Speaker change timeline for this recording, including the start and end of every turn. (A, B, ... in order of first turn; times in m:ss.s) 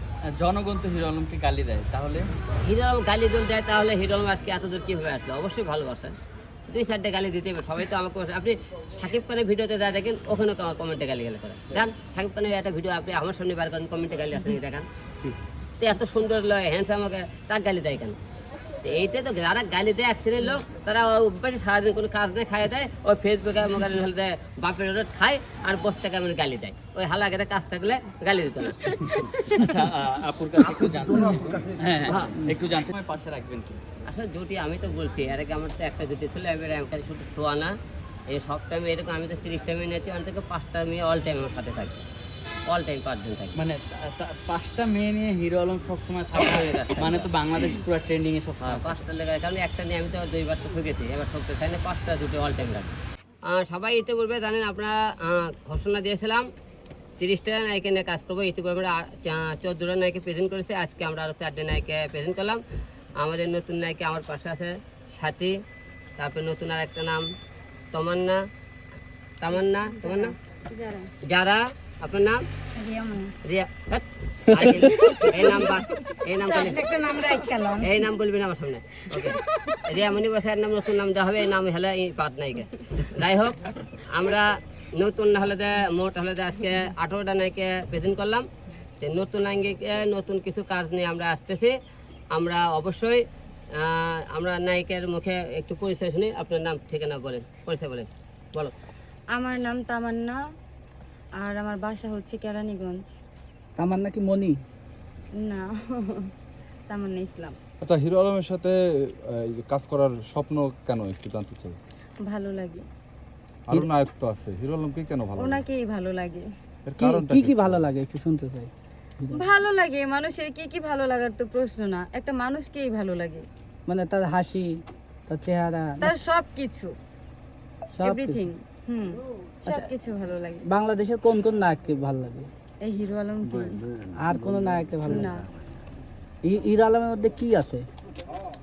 0:00.4-0:02.3 A
0:02.6-0:06.2 B
0:06.7-0:14.9 B
0:15.8-0:18.2 B
0:18.8-0:29.6 B
0:29.5-0:33.8 A
0:32.1-0:32.4 B
0:34.1-0:37.7 B
0:38.3-0:42.0 B
0:42.7-0:43.6 B
0:43.6-0:49.0 A
0:46.3-0:47.3 B
0:48.6-0:53.0 B
0:53.5-0:56.4 B
0:57.2-1:02.6 B
1:03.2-1:05.6 B
1:06.2-1:07.2 B
1:07.9-1:08.4 B
1:09.4-1:10.3 B
1:10.0-1:11.1 C
1:11.3-1:12.4 B
1:12.8-1:13.3 C
1:13.4-1:17.0 B
1:15.4-1:15.8 C
1:16.4-1:18.0 C
1:17.8-1:28.5 B
1:19.2-1:19.8 C
1:29.0-1:31.7 B
1:32.3-1:33.2 B
1:33.8-1:38.7 B
1:39.3-1:40.4 C
1:41.4-1:43.2 C
1:43.8-1:44.6 D
1:45.4-1:46.3 C
1:46.9-1:47.6 C
1:47.8-1:51.8 E
1:52.3-1:52.8 C
1:53.7-1:55.7 E
1:55.4-1:56.5 C
1:56.8-1:57.9 E
1:57.0-1:59.5 D
1:59.3-2:03.5 C
2:03.9-2:04.7 D
2:05.3-2:06.1 D
2:06.0-2:06.9 C
2:07.9-2:08.5 D
2:08.0-2:10.6 C
2:10.6-2:12.5 D
2:12.8-2:13.8 C
2:14.2-2:15.4 D
2:15.0-2:15.5 C
2:16.4-2:17.8 D